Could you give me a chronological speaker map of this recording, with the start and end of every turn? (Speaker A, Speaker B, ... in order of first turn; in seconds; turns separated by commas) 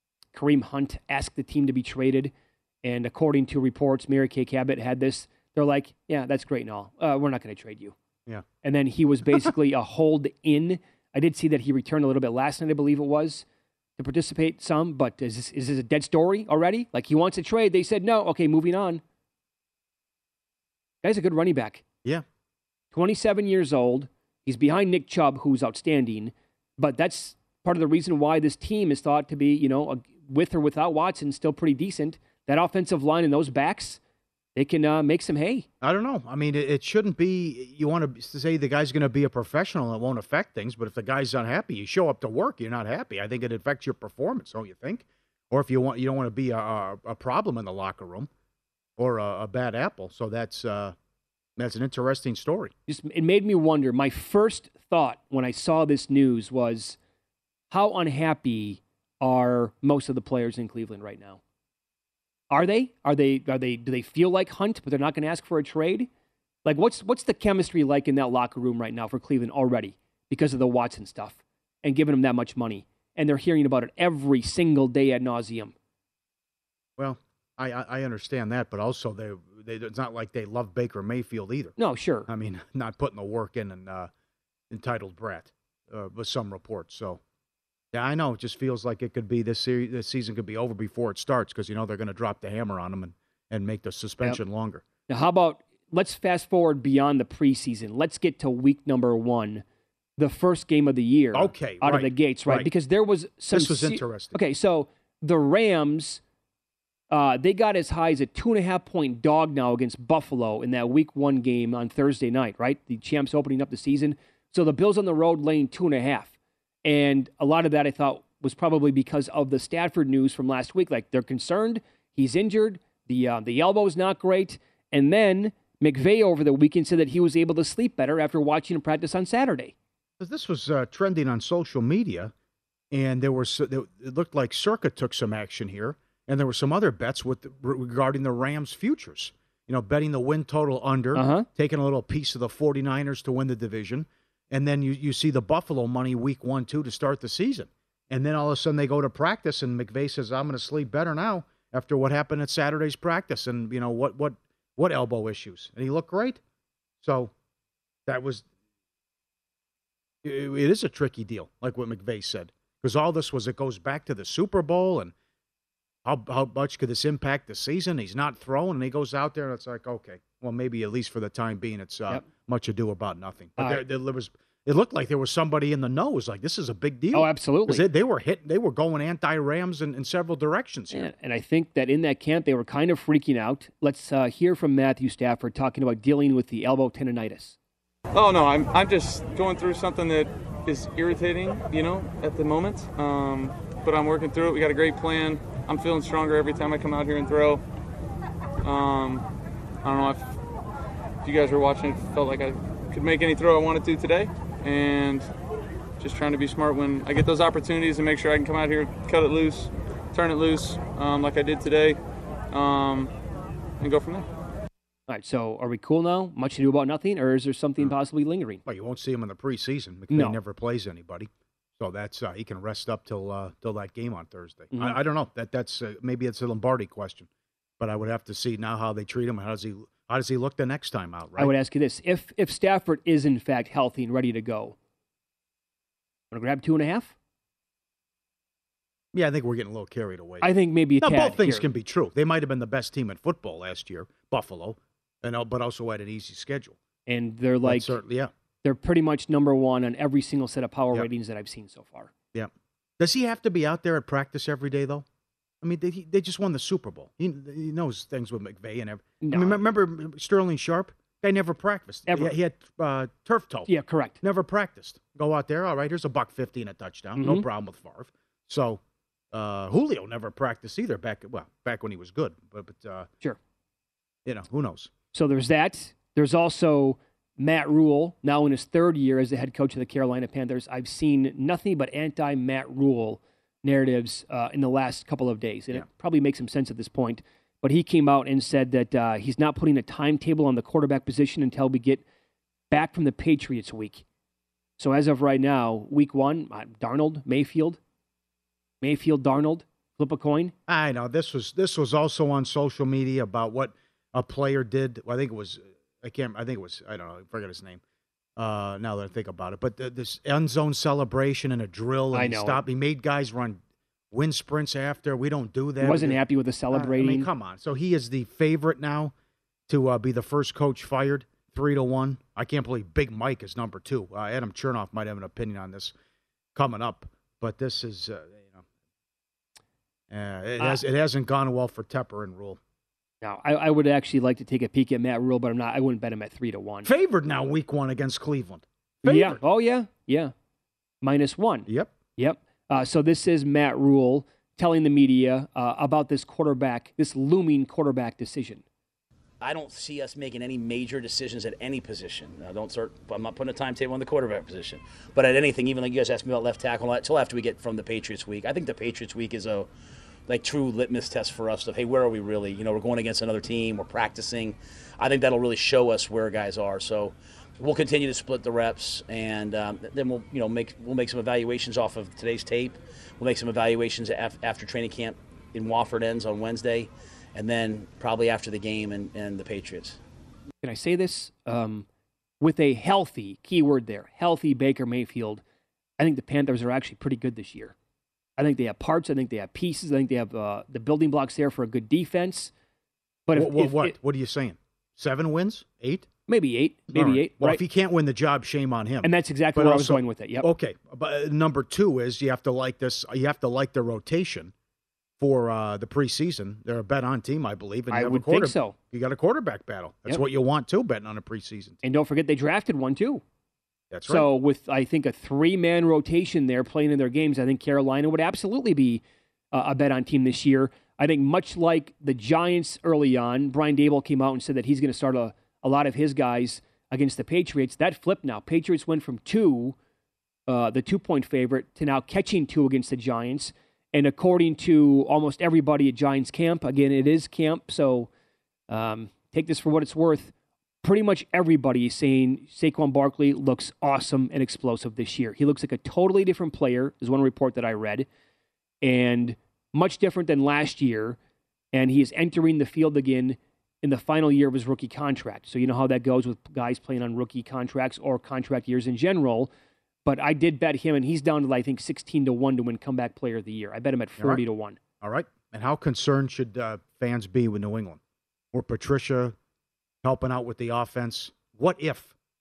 Speaker A: 0.3-2.3, Speaker A: 2.8-7.9, Speaker A: 8.6-13.4, Speaker A: 14.0-19.0, Speaker A: 21.0-21.8, Speaker A: 22.9-34.0, Speaker A: 34.6-35.6, Speaker B: 35.8-48.3, Speaker B: 49.0-50.9, Speaker B: 51.6-52.7, Speaker A: 52.9-57.0, Speaker A: 57.7-61.4, Speaker A: 62.5-66.1, Speaker A: 66.6-75.7, Speaker B: 77.0-81.8, Speaker A: 81.8-82.3, Speaker B: 82.3-84.1, Speaker B: 84.7-87.2, Speaker B: 87.9-94.8, Speaker A: 95.1-99.6, Speaker A: 100.2-106.2, Speaker B: 101.3-102.7, Speaker B: 103.5-104.4, Speaker A: 107.1-116.3, Speaker A: 116.8-129.7, Speaker B: 130.2-132.3, Speaker B: 132.9-156.4, Speaker A: 141.1-141.5, Speaker B: 157.0-157.3, Speaker B: 158.1-158.4, Speaker B: 160.2-165.1, Speaker B: 166.1-181.1, Speaker A: 173.6-173.8, Speaker A: 177.1-177.8, Speaker A: 180.9-187.6, Speaker C: 188.1-197.6, Speaker C: 198.6-199.2, Speaker C: 199.8-200.3, Speaker C: 201.2-205.3, Speaker C: 206.0-212.0, Speaker C: 212.5-213.1, Speaker C: 213.8-214.3, Speaker A: 215.1-218.6, Speaker B: 218.6-227.3, Speaker A: 220.1-220.4, Speaker A: 224.7-225.0, Speaker B: 227.8-231.5, Speaker A: 231.4-234.8, Speaker A: 236.3-237.1, Speaker B: 239.1-240.5, Speaker A: 240.4-241.6, Speaker B: 241.0-246.8, Speaker A: 247.1-248.0, Speaker B: 247.6-248.3, Speaker A: 248.6-252.1, Speaker B: 252.3-255.1, Speaker B: 255.6-263.7, Speaker A: 259.2-259.6, Speaker A: 262.1-262.3, Speaker A: 263.7-264.2, Speaker B: 264.2-268.8, Speaker A: 267.2-267.4, Speaker B: 269.3-273.1, Speaker B: 274.2-274.9, Speaker A: 275.1-292.0, Speaker A: 292.7-294.0, Speaker A: 294.8-297.8, Speaker A: 298.8-300.5, Speaker B: 300.7-307.8, Speaker B: 308.4-313.6, Speaker A: 312.1-312.6, Speaker B: 314.1-316.2, Speaker A: 315.8-317.3, Speaker B: 316.7-319.1, Speaker B: 319.7-325.9, Speaker B: 326.6-328.6, Speaker B: 330.1-332.6, Speaker A: 333.2-336.9, Speaker B: 336.8-339.4, Speaker A: 339.1-340.3, Speaker A: 341.0-348.6, Speaker D: 349.4-359.7, Speaker D: 360.3-380.0, Speaker A: 380.6-381.9, Speaker A: 382.4-385.4, Speaker A: 386.0-387.7, Speaker A: 388.4-392.5, Speaker A: 393.3-393.9, Speaker B: 393.3-396.1, Speaker A: 396.3-397.6, Speaker B: 396.9-404.5, Speaker A: 399.0-400.5, Speaker B: 405.2-411.8, Speaker A: 407.9-408.8, Speaker A: 411.8-413.2, Speaker B: 413.9-414.3, Speaker A: 414.1-429.7, Speaker A: 430.5-438.1, Speaker A: 438.7-440.3, Speaker A: 440.8-448.1, Speaker A: 448.8-451.2, Speaker A: 451.7-459.5, Speaker A: 460.1-464.8, Speaker B: 465.0-468.0, Speaker B: 468.5-469.3, Speaker B: 470.0-472.1